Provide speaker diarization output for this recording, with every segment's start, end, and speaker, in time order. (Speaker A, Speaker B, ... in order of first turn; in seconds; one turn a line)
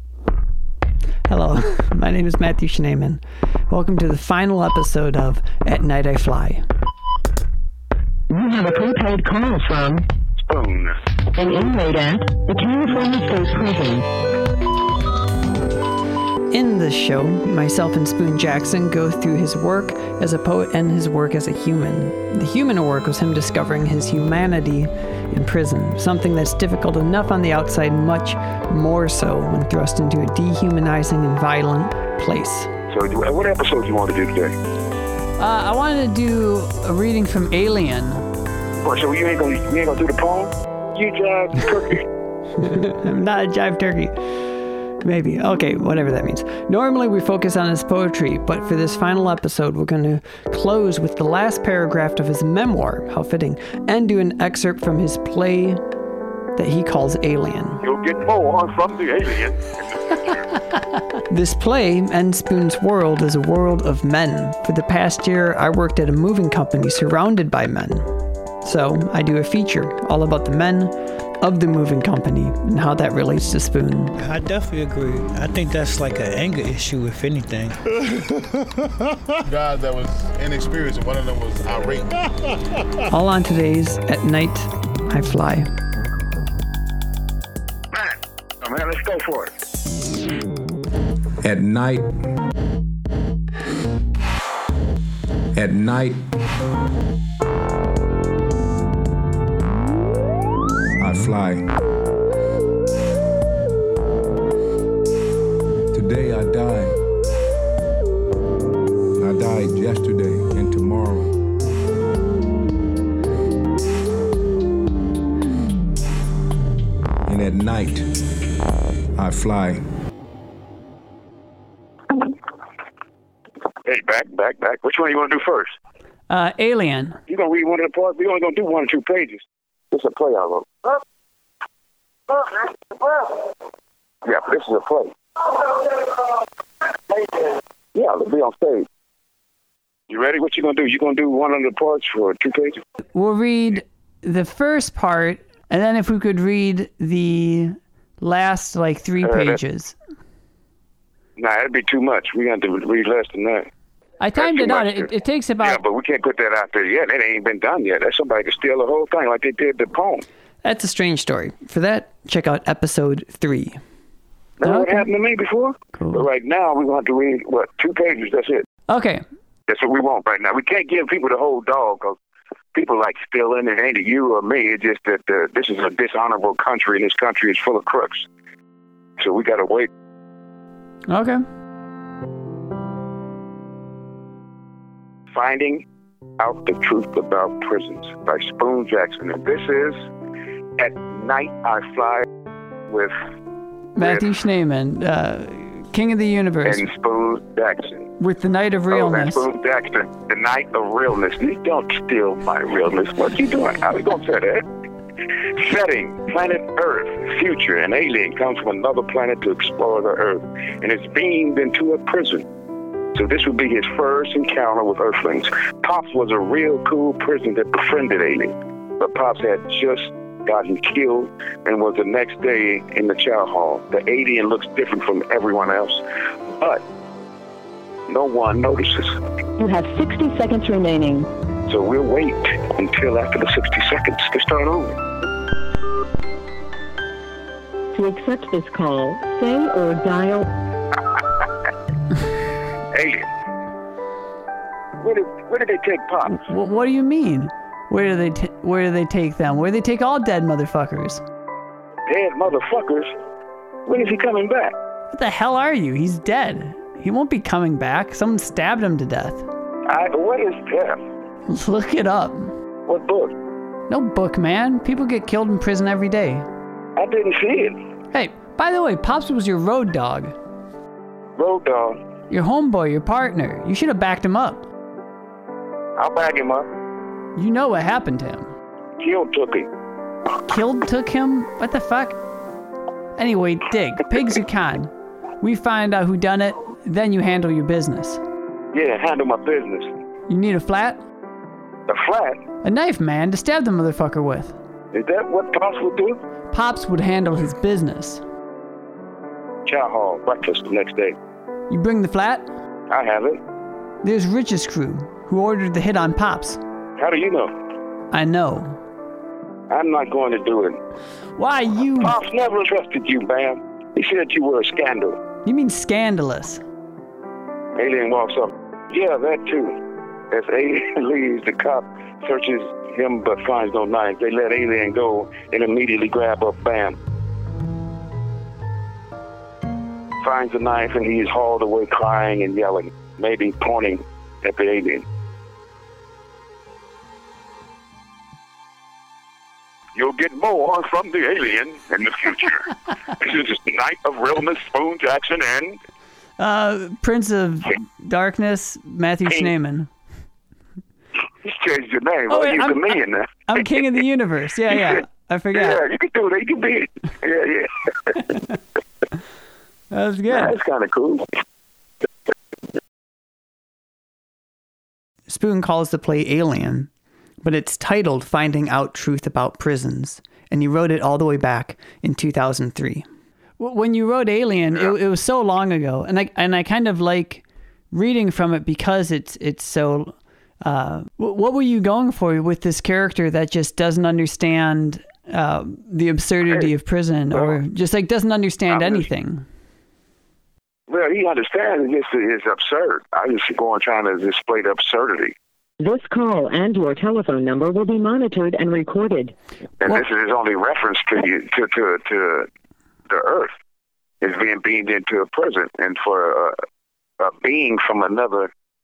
Speaker A: 1.3-6.7
Speaker B: 8.3-10.1
Speaker C: 10.4-10.9
Speaker B: 11.4-14.1
Speaker A: 16.5-32.7
Speaker C: 32.9-34.5
Speaker A: 35.4-38.3
Speaker C: 38.8-42.0
Speaker A: 42.6-55.8
Speaker A: 56.6-57.8
Speaker C: 57.8-60.4
Speaker A: 61.3-68.1
Speaker A: 68.6-74.2
Speaker D: 74.2-77.8
Speaker E: 79.5-82.3
Speaker A: 83.1-85.7
Speaker C: 87.9-89.5
Speaker F: 91.4-92.1
Speaker F: 95.5-96.2
Speaker F: 101.0-101.7
Speaker F: 105.9-106.9
Speaker F: 109.2-111.3
Speaker F: 117.3-118.1
Speaker F: 119.2-119.8
Speaker C: 123.9-125.8
Speaker A: 126.3-127.2
Speaker C: 127.3-131.0
Speaker C: 132.3-133.5
Speaker C: 134.2-136.1
Speaker C: 137.3-138.9
Speaker C: 140.1-142.8
Speaker A: 143.1-150.0
Speaker C: 149.2-149.6
Speaker C: 151.4-153.7
Speaker A: 154.2-155.8
Speaker C: 154.3-160.2
Speaker A: 160.6-163.8
Speaker C: 164.6-168.7
Speaker A: 164.6-165.1
Speaker A: 166.0-166.2
Speaker A: 168.9-169.2
Speaker C: 169.7-172.2
Speaker C: 172.7-178.3
Speaker C: 179.2-179.9
Speaker A: 181.1-181.4
Speaker C: 185.3-185.8
Speaker C: 186.4-190.0
Speaker C: 190.8-192.3
Speaker A: 194.0-196.8
Speaker C: 194.0-194.2
Speaker C: 196.7-198.1
Speaker A: 198.2-199.4
Speaker C: 198.9-204.7
Speaker C: 205.6-212.4
Speaker C: 213.2-226.0
Speaker C: 226.6-226.8
Speaker C: 228.1-229.2
Speaker B: 229.6-231.3
Speaker C: 231.7-235.0
Speaker B: 237.9-240.5
Speaker C: 242.9-243.2
Speaker C: 245.0-246.4
Speaker A: 246.3-251.2
Speaker C: 252.1-253.1
Speaker C: 253.9-254.8
Speaker A: 255.1-259.5
Speaker C: 259.9-261.0
Speaker A: 261.5-262.5
Speaker C: 262.9-263.3
Speaker A: 263.9-266.5
Speaker C: 267.0-267.8
Speaker A: 268.1-270.4
Speaker C: 271.4-272.0
Speaker A: 272.3-274.7
Speaker C: 276.0-276.7
Speaker A: 277.4-278.5
Speaker C: 279.0-279.7
Speaker A: 280.5-282.2
Speaker A: 283.2-288.2
Speaker C: 288.7-289.9
Speaker A: 290.3-291.0
Speaker C: 291.9-292.4
Speaker A: 292.6-294.6
Speaker C: 294.9-296.2
Speaker A: 296.5-298.2
Speaker C: 299.7-301.1
Speaker A: 301.7-302.5
Speaker C: 302.9-303.4
Speaker A: 304.0-306.6
Speaker C: 307.0-307.5
Speaker A: 308.1-308.8
Speaker C: 309.7-310.8
Speaker A: 311.4-312.2
Speaker C: 312.0-315.2
Speaker A: 315.4-316.6
Speaker C: 317.8-319.8
Speaker C: 320.3-327.0
Speaker C: 330.2-335.1
Speaker C: 340.0-345.8
Speaker A: 346.4-349.9
Speaker C: 351.4-353.4
Speaker A: 352.3-355.8
Speaker C: 355.5-358.1
Speaker A: 359.9-360.6
Speaker C: 360.3-361.3
Speaker A: 365.3-366.9
Speaker A: 367.4-373.1
Speaker A: 373.6-389.4
Speaker C: 387.3-387.6
Speaker C: 388.7-389.1
Speaker C: 390.9-395.4
Speaker B: 395.8-399.4
Speaker C: 399.8-402.5
Speaker C: 403.1-403.5
Speaker C: 404.2-406.5
Speaker C: 407.2-408.5